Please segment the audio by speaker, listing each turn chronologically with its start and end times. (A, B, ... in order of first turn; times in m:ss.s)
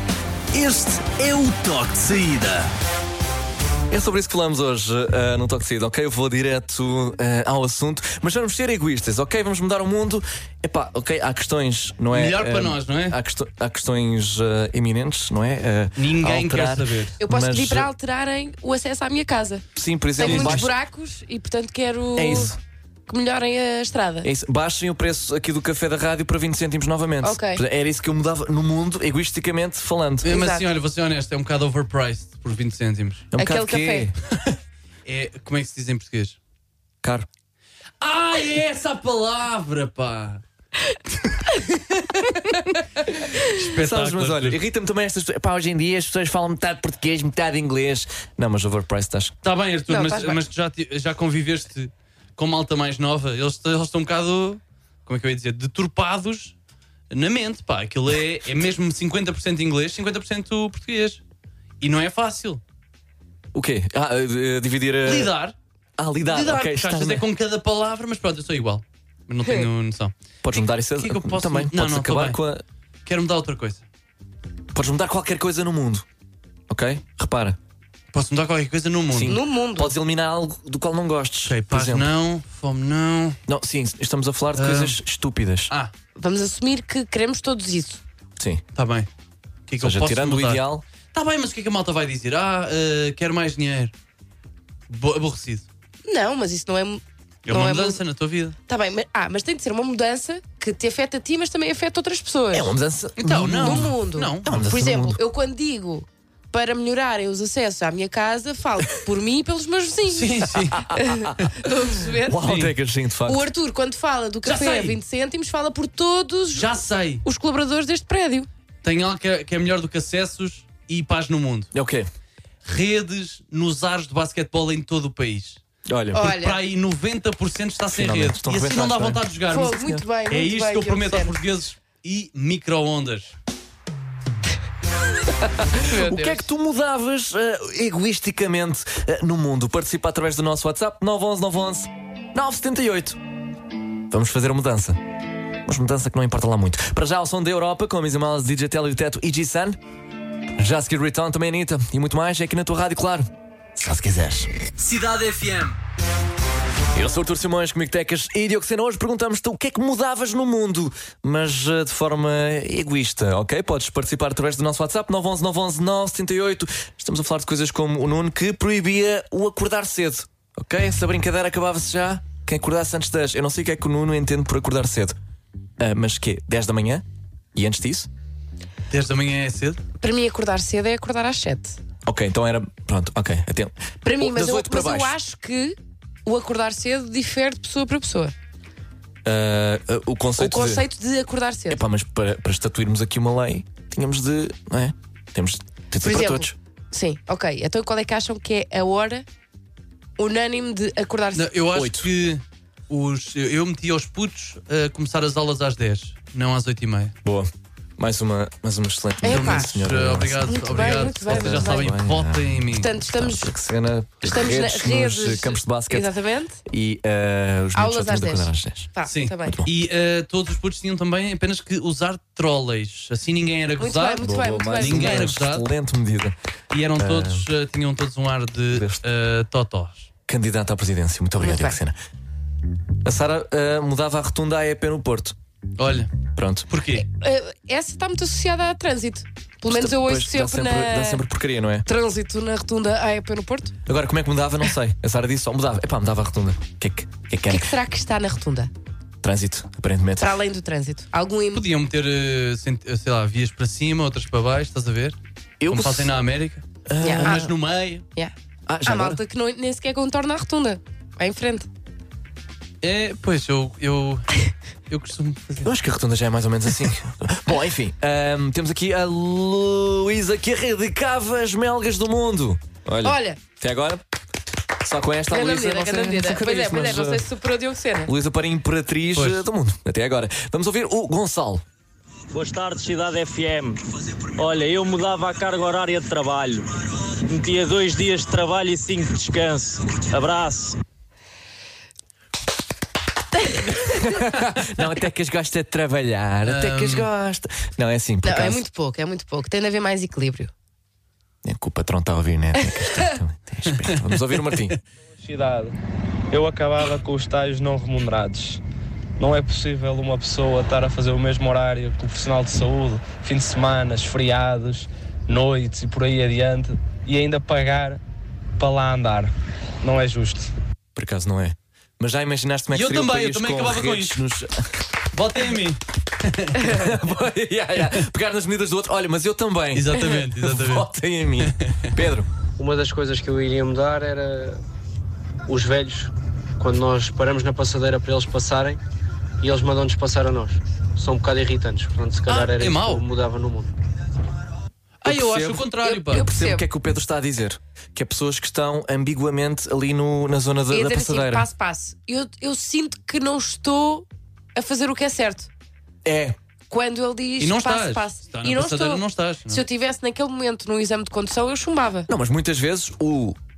0:00.5-0:02.7 A
0:03.9-0:17.9 B
0:12.1-0:13.2 C
0:16.0-0:17.1 C
0:17.2-0:19.6 D
0:19.8-0:20.7 B
0:20.2-0:22.5 D
0:20.2-0:20.6 C
0:22.1-0:22.6 B
0:23.1-0:24.3 D
0:24.2-0:30.4 B
0:27.2-0:27.6 D
0:30.2-0:33.3 C
0:30.3-0:30.6 D
0:33.3-0:34.1 B
0:33.4-0:34.1 D
0:35.0-0:36.4 C
0:38.0-0:40.4 C
0:43.4-0:44.6 C
0:43.8-0:49.3 B
0:49.4-0:56.5 C
0:49.9-0:50.4 D
0:57.1-1:01.2 C
1:01.8-1:02.6 C
1:03.5-1:05.3 B
1:05.0-1:05.6 C
1:06.0-1:07.2 B
1:06.3-1:12.4 C
1:10.4-1:12.6 B
1:13.0-1:13.8 C
1:14.7-1:16.0 B
1:16.7-1:17.6 B
1:18.1-1:19.4 C
1:19.1-1:22.1 B
1:19.2-1:19.9 D
1:21.5-1:23.4 C
1:23.5-1:25.7 B
1:24.6-1:25.0 C
1:26.2-1:28.0 D
1:28.8-1:29.1 C
1:29.7-1:33.9 C
1:29.8-1:30.8 B
1:34.9-1:35.7 C
1:36.0-1:38.0 D
1:37.4-1:38.6 C
1:38.7-1:42.7 D
1:42.5-1:45.2 B
1:43.2-1:44.4 C
1:43.6-1:52.4 D
1:50.1-1:50.9 C
1:52.3-1:53.4 B
1:52.4-1:52.7 C
1:53.2-1:58.5 D
1:54.4-1:55.0 C
1:56.5-1:57.2 C
1:58.8-2:01.7 C
2:01.7-2:02.1 B
2:02.6-2:05.6 C
2:05.9-2:06.3 B
2:06.1-2:06.6 D
2:06.2-2:13.3 C
2:07.9-2:09.2 B
2:09.5-2:11.4 D
2:15.7-2:16.5 D
2:15.8-2:23.2 B
2:24.1-2:25.0 B
2:25.6-2:29.8 B
2:30.6-2:34.5 B
2:34.8-2:35.8 A
2:37.0-2:55.2 B
2:55.8-2:58.1 B
2:58.9-2:59.8 C
3:00.0-3:01.8 D
3:02.0-3:05.2 B
3:04.0-3:08.3 D
3:09.2-3:10.8 B
3:10.4-3:11.8 D
3:11.7-3:16.6 B
3:16.0-3:19.2 D
3:20.2-3:21.5 D
3:21.3-3:27.1 C
3:21.7-3:22.1 B
3:27.2-3:36.1 B
3:29.2-3:29.7 D
3:29.2-3:32.9 C
3:30.5-3:31.9 D
3:32.7-3:33.5 D
3:34.2-3:36.6 D
3:36.7-3:38.9 B
3:37.8-3:39.6 D
3:39.1-3:45.7 C
3:43.8-3:45.3 D
3:44.2-3:46.3 B
3:46.7-3:50.1 C
3:47.0-3:47.4 B
3:48.7-3:49.0 B
3:50.3-3:52.0 B
3:51.4-3:51.8 D
3:53.0-3:55.3 B
3:55.8-3:56.1 C
3:56.3-3:56.7 B
3:56.7-3:57.1 C
3:56.9-4:01.2 D
3:59.7-4:01.9 B
4:01.9-4:03.8 D
4:03.9-4:07.7 B
4:07.5-4:08.7 D
4:09.2-4:10.3 B
4:10.2-4:11.6 D
4:11.5-4:15.2 C
4:15.6-4:16.1 B
4:15.7-4:16.6 C
4:16.9-4:17.5 B
4:17.0-4:17.3 D
4:17.2-4:18.1 C
4:18.7-4:19.2 B
4:18.8-4:21.7 D
4:22.8-4:24.2 C
4:24.9-4:25.7 C
4:25.6-4:34.0 B
4:33.0-4:33.4 D
4:34.8-4:37.2 B
4:35.3-4:38.1 D
4:38.1-4:41.6 B
4:39.2-4:39.4 C
4:42.3-4:43.8 E
4:44.4-4:46.7 E
4:47.2-4:50.8 E
4:53.4-4:53.9 D
4:53.9-4:58.6 B
4:56.4-4:57.1 C
4:58.2-5:00.5 D
5:01.4-5:04.8 B
5:03.7-5:04.7 C
5:05.2-5:05.7 F
5:06.3-5:08.6 F
5:09.2-5:18.0 F
5:18.6-5:19.3 F
5:19.8-5:20.5 F
5:20.9-5:24.6 B
5:22.7-5:24.2 C
5:25.1-5:26.8 C
5:26.6-5:32.3 B
5:29.7-5:30.9 C
5:31.4-5:31.7 C
5:32.6-5:34.6 G
5:35.5-5:38.8 G
5:39.4-5:43.7 G
5:42.3-5:43.0 C
5:45.0-5:46.2 C
5:45.0-5:51.5 B
5:45.9-5:46.7 D
5:50.7-5:55.5 D
5:56.0-5:56.4 B
5:56.7-6:02.1 D
5:57.4-5:59.6 C
6:02.1-6:03.4 B